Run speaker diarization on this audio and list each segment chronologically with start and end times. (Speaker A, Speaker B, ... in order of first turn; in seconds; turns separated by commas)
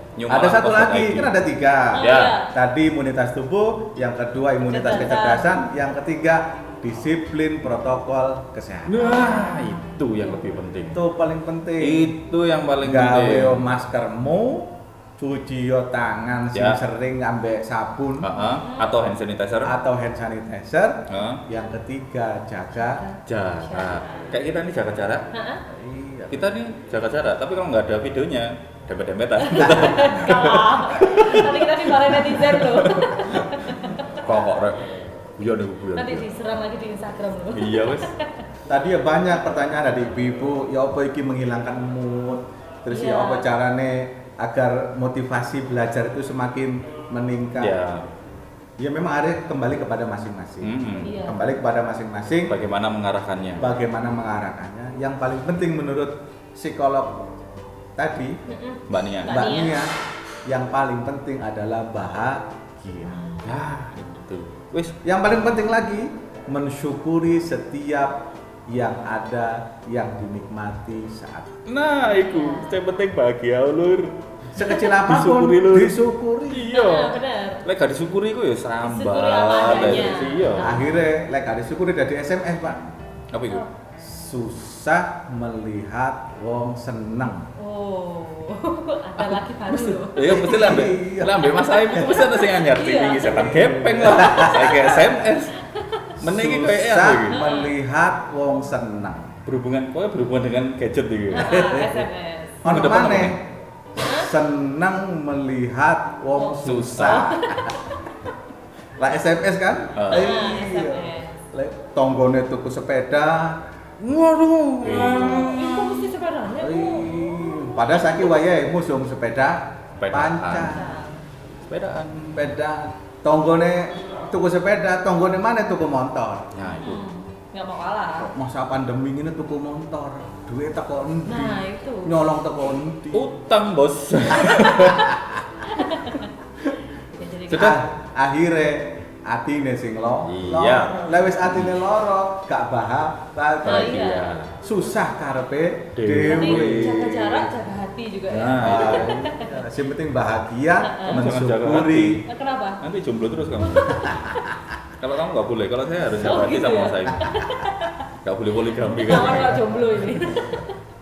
Speaker A: 0.2-1.3, Speaker B: 0.3-9.3, Speaker C: 1.9-2.5, Speaker A: 2.0-2.4, Speaker C: 4.7-5.6, Speaker A: 8.9-11.0, Speaker C: 9.1-9.8, Speaker B: 10.9-12.1, Speaker A: 11.8-13.7, Speaker B: 12.8-18.3, Speaker A: 16.5-16.8, Speaker A: 18.2-19.7, Speaker C: 18.6-19.0, Speaker B: 19.6-23.0, Speaker A: 21.1-21.4, Speaker C: 22.8-24.3, Speaker A: 23.3-25.3, Speaker C: 25.3-25.6, Speaker B: 25.7-26.4, Speaker A: 26.3-36.3, Speaker C: 29.4-34.2, Speaker C: 36.0-38.4, Speaker A: 37.5-38.1, Speaker B: 38.7-47.8, Speaker C: 42.9-43.5, Speaker A: 47.6-48.1, Speaker B: 48.8-52.5, Speaker A: 50.6-51.1, Speaker C: 51.0-51.5, Speaker A: 52.5-53.6, Speaker B: 53.6-57.2, Speaker B: 58.0-58.4, Speaker C: 58.5-59.8, Speaker A: 58.9-59.5, Speaker B: 59.3-60.0, Speaker B: 60.5-63.5, Speaker A: 63.4-65.0, Speaker B: 65.0-71.6, Speaker A: 71.7-74.2, Speaker C: 72.0-72.8, Speaker B: 74.5-76.7, Speaker C: 74.6-75.0, Speaker A: 74.7-76.0, Speaker A: 76.5-80.8, Speaker C: 76.7-77.6, Speaker C: 78.8-81.0, Speaker B: 79.7-82.9, Speaker A: 83.3-83.7, Speaker B: 84.0-87.5, Speaker C: 87.6-90.5, Speaker A: 89.2-95.5, Speaker B: 90.2-92.5, Speaker C: 92.7-93.5, Speaker B: 93.3-95.2, Speaker C: 95.8-96.1, Speaker A: 96.2-97.5, Speaker B: 96.2-99.4, Speaker C: 97.3-97.7, Speaker A: 99.5-101.8, Speaker C: 101.3-102.9, Speaker B: 101.4-102.0, Speaker B: 102.6-103.4, Speaker A: 102.7-103.4, Speaker B: 104.0-107.9, Speaker C: 104.0-104.3, Speaker C: 106.4-107.8, Speaker A: 106.6-107.4, Speaker B: 109.0-113.6, Speaker A: 110.0-110.4, Speaker C: 110.1-111.4, Speaker A: 114.0-115.9, Speaker B: 114.8-115.5, Speaker C: 114.9-117.8, Speaker B: 116.6-120.9, Speaker A: 120.0-120.8, Speaker C: 120.6-121.2, Speaker A: 121.6-122.4, Speaker B: 122.3-126.5, Speaker A: 126.5-127.0, Speaker C: 126.7-128.3, Speaker B: 128.2-133.3, Speaker C: 131.3-132.1, Speaker A: 133.1-135.2, Speaker C: 134.3-136.3, Speaker C: 137.2-137.8, Speaker A: 137.5-137.8, Speaker B: 137.5-147.4, Speaker A: 140.2-141.7, Speaker C: 143.6-144.4, Speaker A: 143.7-144.5, Speaker A: 146.0-147.2, Speaker C: 146.2-149.5, Speaker A: 148.3-149.2, Speaker B: 148.6-152.2, Speaker C: 150.8-151.2, Speaker A: 151.1-152.3, Speaker C: 152.3-152.8, Speaker A: 152.8-154.2, Speaker C: 153.8-154.4, Speaker A: 155.0-157.4, Speaker C: 156.2-158.0, Speaker A: 158.2-159.6, Speaker C: 159.0-160.8